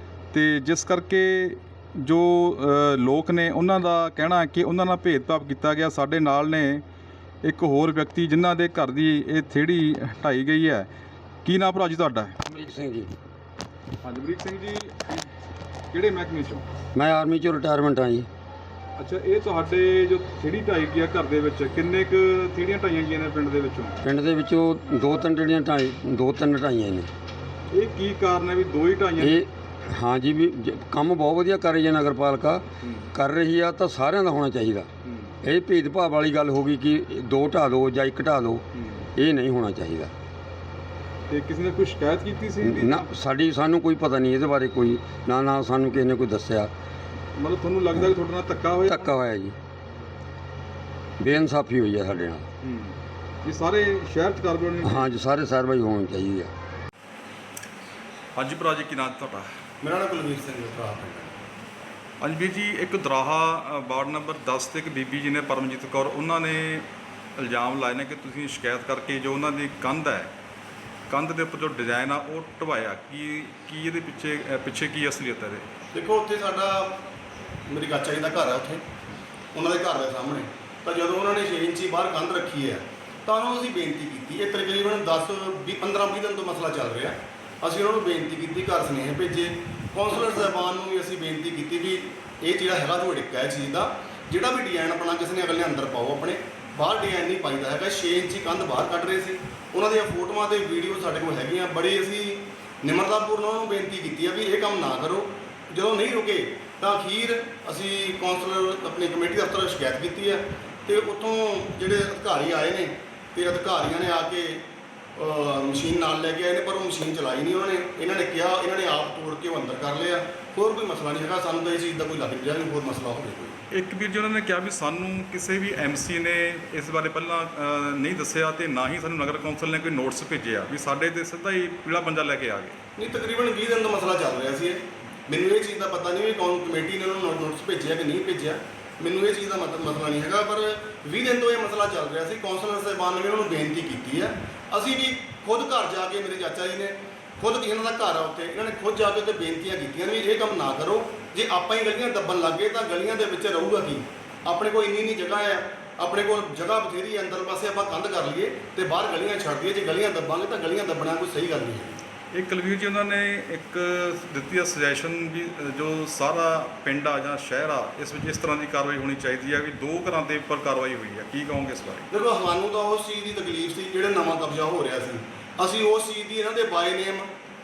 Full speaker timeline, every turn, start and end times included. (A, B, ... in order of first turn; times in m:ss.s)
0:00.3-0:06.8 A
0:07.4-0:10.9 A
0:11.4-0:12.4 A
0:12.5-0:13.1 B
0:14.0-0:15.3 A
0:15.9-0:16.6 A
0:16.9-0:18.3 B
0:19.0-0:24.0 A
0:24.0-0:27.1 B
0:27.7-0:29.4 A
0:29.2-0:32.6 B
0:32.8-0:33.1 A
0:33.1-0:34.9 B
0:35.0-0:35.3 A
0:35.4-0:38.6 B
0:38.7-0:39.1 A
0:39.2-0:40.1 B
0:41.3-0:43.1 A
0:42.6-0:46.7 B
0:47.3-0:49.1 A
0:48.9-0:49.5 B
0:51.2-0:52.4 B
0:52.6-0:55.1 A
0:54.8-0:56.5 B
0:58.4-0:59.5 A
0:59.8-1:01.3 C
1:02.2-1:10.3 A
1:11.1-1:15.7 A
1:15.9-1:16.9 C
1:17.7-1:18.8 C
1:19.5-1:54.6 C
1:55.2-2:03.6 C
2:03.7-2:12.8 A
2:13.0-2:41.9 C
2:42.3-2:52.1 A
2:52.1-2:57.3 C